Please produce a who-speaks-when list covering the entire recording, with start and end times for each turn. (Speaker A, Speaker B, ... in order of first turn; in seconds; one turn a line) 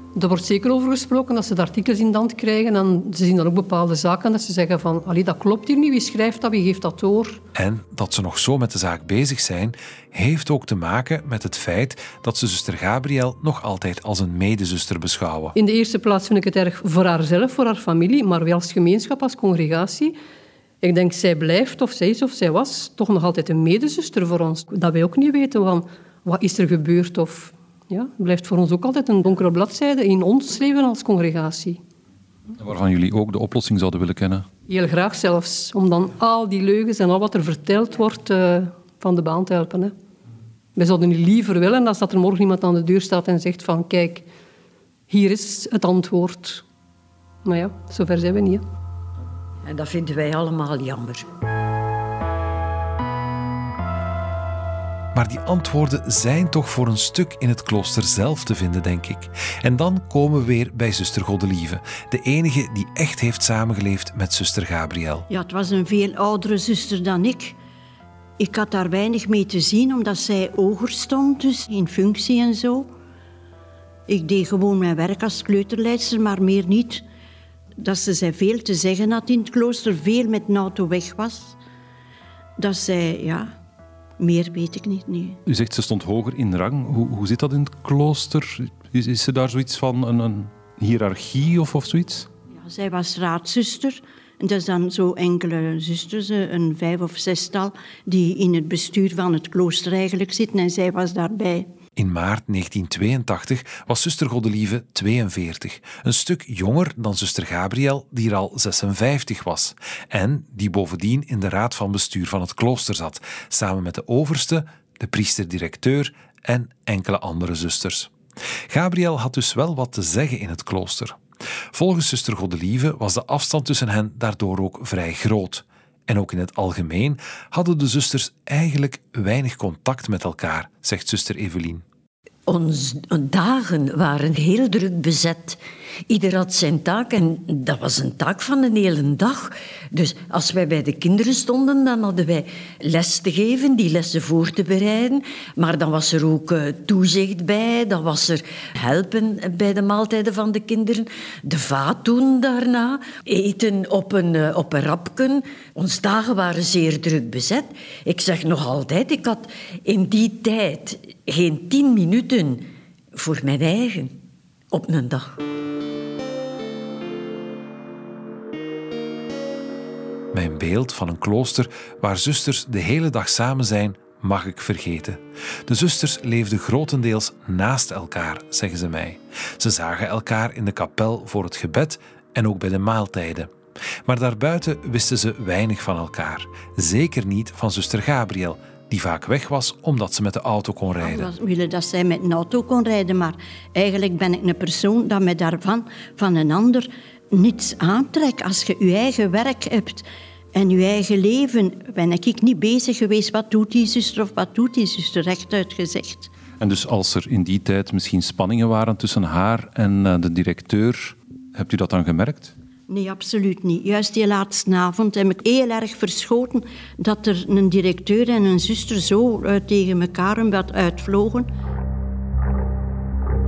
Speaker A: 0.2-7.4
Speaker B: 7.5-15.6
Speaker A: 15.6-20.1
Speaker A: 20.8-31.8
Speaker C: 32.6-34.5
Speaker A: 34.7-39.9
Speaker A: 40.8-44.2
Speaker A: 45.1-46.6
Speaker A: 47.5-48.6
Speaker D: 49.6-51.3
Speaker B: 55.1-65.3
Speaker E: 65.3-67.6
Speaker E: 68.4-72.9
Speaker E: 74.1-77.0
Speaker E: 77.8-81.6
Speaker E: 82.6-83.5
Speaker E: 84.2-85.4
Speaker C: 85.5-92.3
Speaker E: 92.5-101.7
Speaker B: 102.0-118.1
Speaker B: 118.7-121.2
Speaker B: 121.7-131.8
Speaker D: 132.5-164.2
Speaker D: 164.7-165.4
Speaker B: 170.3-183.5
Speaker B: 184.1-191.3
Speaker E: 191.0-206.3
Speaker C: 206.6-212.5
Speaker E: 212.9-221.5